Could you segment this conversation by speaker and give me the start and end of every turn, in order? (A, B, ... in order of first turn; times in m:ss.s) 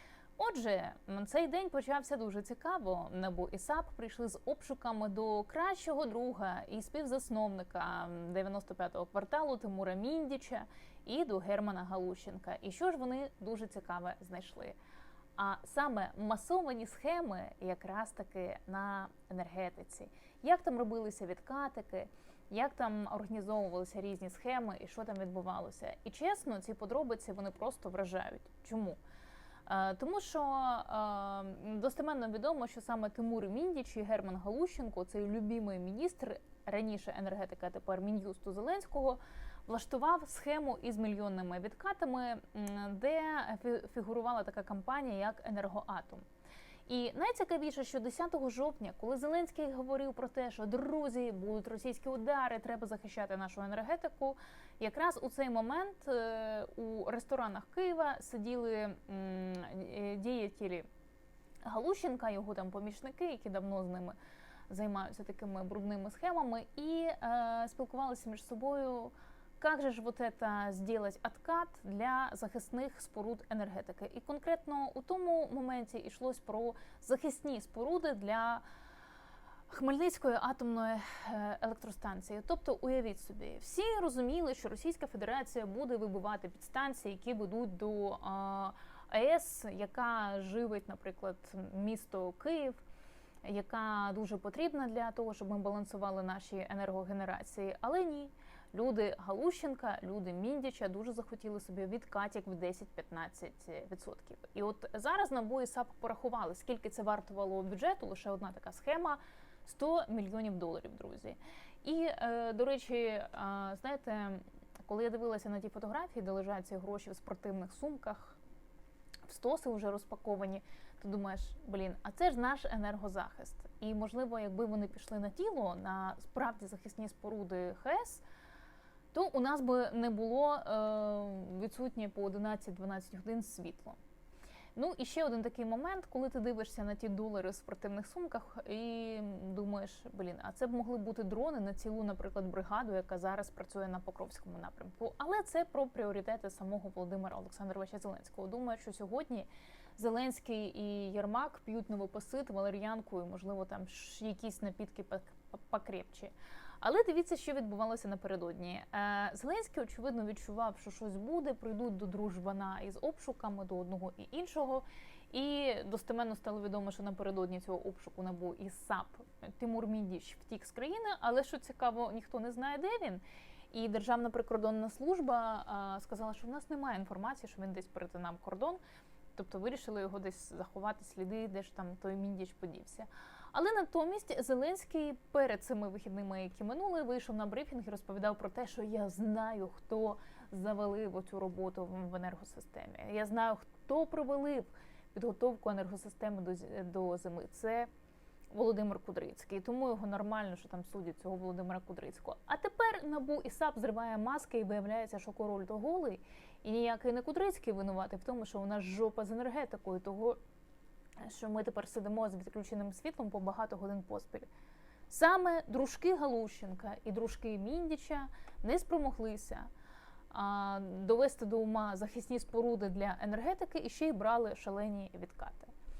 0:00.4-0:14.8 A
0:15.4-0:29.0 A
0:29.6-0:46.2 A
0:46.9-1:00.9 A
1:01.6-1:04.2 A
1:04.7-1:18.6 A
1:19.7-1:32.8 A
1:33.4-1:58.4 A
1:59.2-2:08.2 A
2:09.1-2:14.0 A
2:14.8-2:58.8 A
2:59.3-3:17.9 A
3:18.5-3:30.4 A
3:31.2-3:34.5 A
3:35.1-3:39.7 A
3:40.3-3:45.7 A